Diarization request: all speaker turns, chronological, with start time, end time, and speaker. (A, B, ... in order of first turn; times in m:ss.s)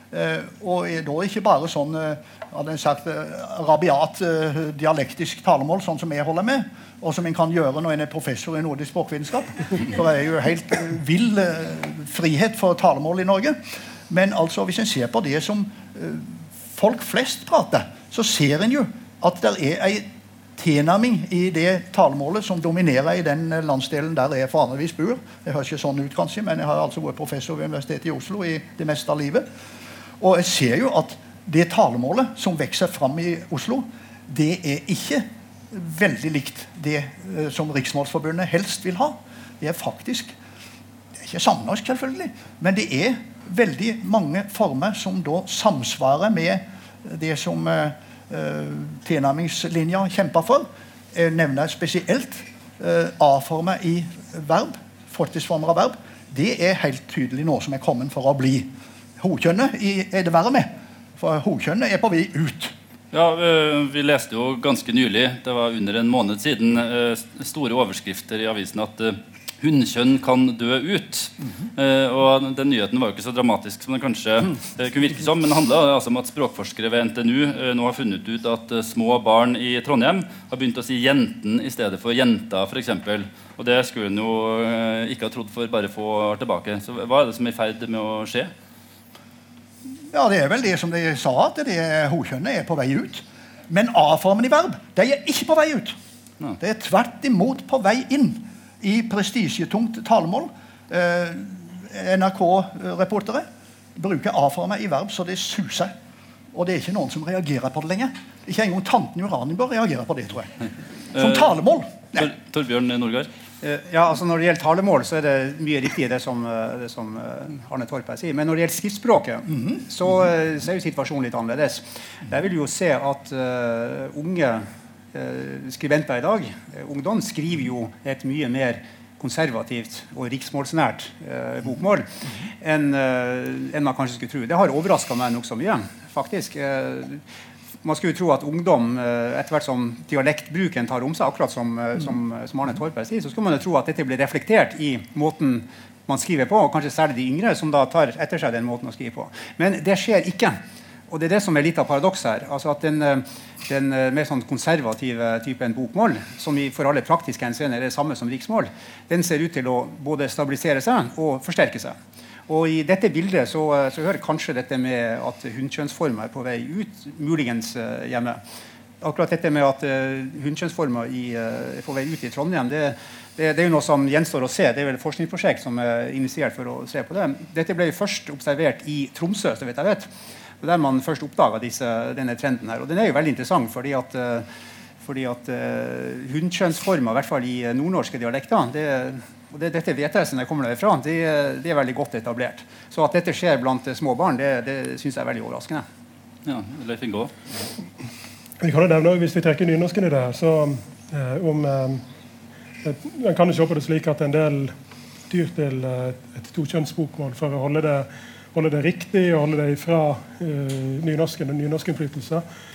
0:00.1-0:13.6 A
0:14.1-0:29.4 A
0:30.2-0:40.3 A
0:41.2-1:02.7 A
1:03.1-1:28.5 B
1:30.1-1:36.0 A
1:36.6-1:45.9 A
1:46.5-1:50.5 A
1:51.1-1:51.5 B
1:51.1-1:52.3 A
1:52.1-1:53.3 B
1:53.6-2:12.1 C
2:12.6-2:17.2 C
2:17.8-2:30.6 C
2:31.1-2:42.0 C
2:42.5-2:48.4 C
2:49.0-3:00.1 C
3:00.6-3:04.4 C
3:05.0-3:15.8 C
3:16.4-3:17.3 B
3:18.6-3:22.0 D
3:22.8-3:24.7 D
3:25.3-3:32.4 D